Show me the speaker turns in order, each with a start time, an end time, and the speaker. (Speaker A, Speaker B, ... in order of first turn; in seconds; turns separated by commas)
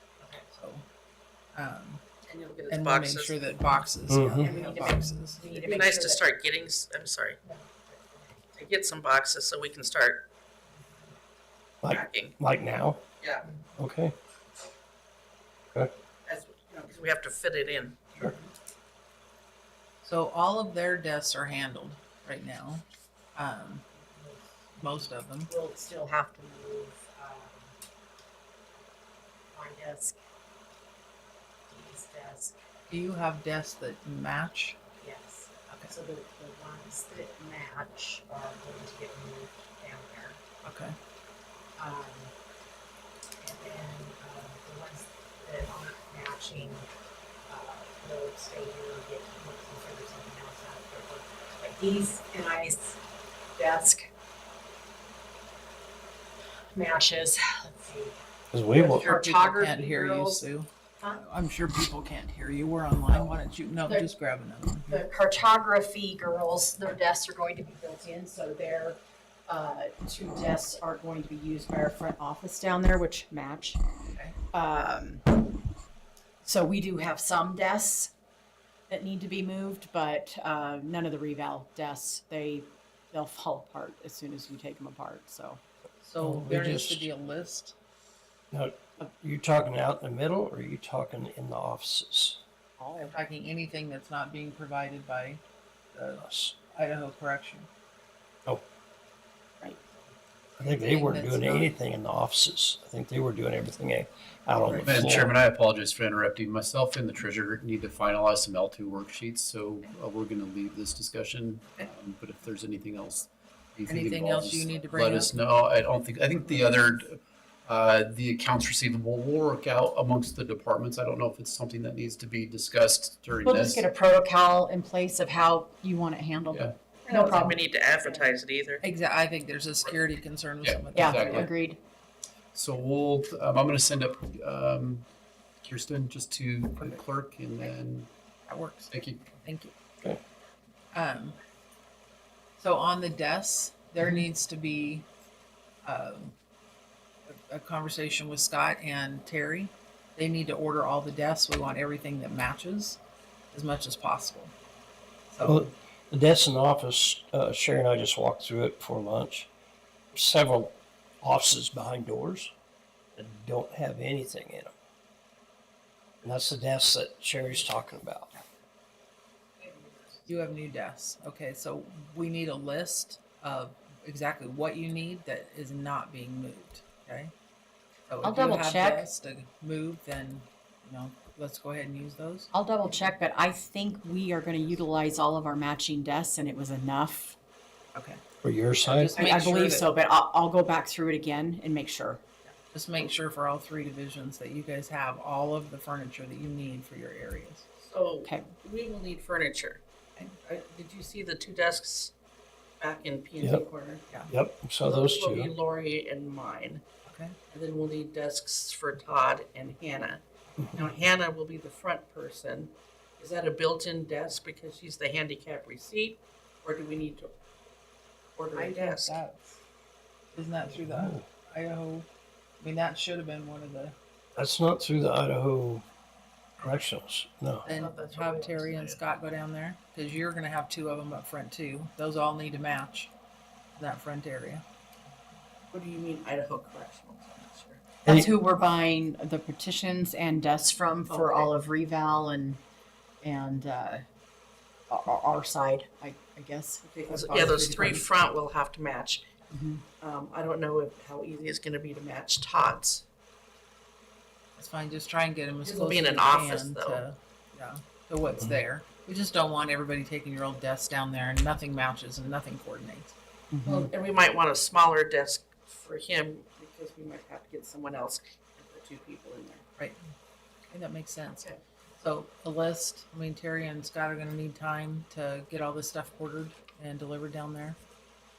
Speaker A: 0.5-0.8, Speaker A: 1.5-2.0, Speaker B: 2.3-3.4, Speaker A: 2.7-5.4, Speaker C: 4.1-4.5, Speaker D: 4.4-6.2, Speaker B: 5.5-7.4, Speaker D: 7.4-8.4, Speaker B: 8.6-10.2, Speaker C: 11.8-13.0, Speaker B: 11.9-12.3, Speaker B: 13.2-13.4, Speaker C: 13.8-14.1, Speaker B: 16.2-18.0, Speaker A: 20.0-22.8, Speaker A: 23.4-23.8, Speaker D: 24.1-24.8, Speaker A: 24.8-25.5, Speaker D: 25.5-27.7, Speaker D: 29.5-30.1, Speaker D: 31.7-32.5, Speaker A: 32.9-34.8, Speaker D: 35.0-40.4, Speaker A: 40.6-40.9, Speaker D: 41.8-42.3, Speaker D: 43.4-46.8, Speaker D: 47.5-53.0, Speaker D: 53.5-54.0, Speaker D: 56.7-58.2, Speaker C: 58.5-59.1, Speaker D: 58.7-60.4, Speaker A: 58.8-65.0, Speaker D: 64.8-73.8, Speaker D: 74.5-75.6, Speaker D: 76.4-78.1, Speaker D: 78.9-85.6, Speaker A: 86.0-87.7, Speaker C: 86.2-87.1, Speaker C: 88.5-92.4, Speaker D: 92.8-93.2, Speaker A: 93.1-95.4, Speaker A: 95.9-97.7, Speaker C: 96.2-96.5, Speaker D: 99.6-100.0, Speaker C: 100.6-105.3, Speaker A: 100.6-101.7, Speaker A: 104.7-105.2, Speaker E: 104.8-123.8, Speaker A: 113.9-115.3, Speaker D: 123.4-128.3, Speaker B: 127.1-128.8, Speaker A: 128.8-131.5, Speaker E: 130.6-131.5, Speaker D: 130.9-131.8, Speaker E: 132.5-135.1, Speaker E: 135.6-138.1, Speaker A: 138.5-139.7, Speaker E: 138.9-139.3, Speaker A: 140.9-141.4, Speaker A: 142.6-145.1, Speaker A: 145.8-146.3, Speaker A: 147.3-153.0, Speaker A: 153.5-154.5, Speaker A: 155.3-155.7, Speaker C: 155.4-159.5, Speaker C: 160.1-162.5, Speaker C: 163.2-164.7, Speaker C: 166.2-168.4, Speaker A: 170.2-177.3, Speaker A: 178.1-182.5, Speaker D: 178.2-179.1, Speaker D: 182.5-187.4, Speaker A: 187.9-188.2, Speaker C: 188.4-189.2, Speaker A: 188.8-189.9, Speaker D: 189.1-192.2, Speaker A: 192.7-197.6, Speaker B: 197.8-202.1, Speaker D: 198.2-198.5, Speaker B: 202.8-204.0, Speaker C: 204.3-205.5, Speaker B: 204.8-206.8, Speaker A: 207.0-207.3, Speaker B: 207.5-217.3, Speaker B: 218.3-219.2, Speaker A: 218.5-219.4, Speaker A: 220.3-222.1, Speaker C: 220.8-221.2, Speaker A: 222.6-223.9, Speaker C: 224.3-225.8, Speaker C: 226.6-227.6, Speaker B: 227.6-229.0, Speaker A: 227.6-233.1, Speaker A: 233.8-234.6, Speaker B: 235.7-237.8, Speaker D: 238.0-242.6, Speaker B: 241.1-241.5, Speaker D: 243.2-244.0, Speaker D: 244.9-248.0, Speaker B: 246.8-249.2, Speaker D: 249.5-249.8, Speaker B: 250.0-253.0, Speaker A: 254.6-263.1, Speaker B: 255.6-257.0, Speaker D: 263.5-263.9, Speaker B: 263.6-269.6, Speaker A: 270.7-271.4, Speaker B: 271.2-271.6, Speaker A: 272.0-277.8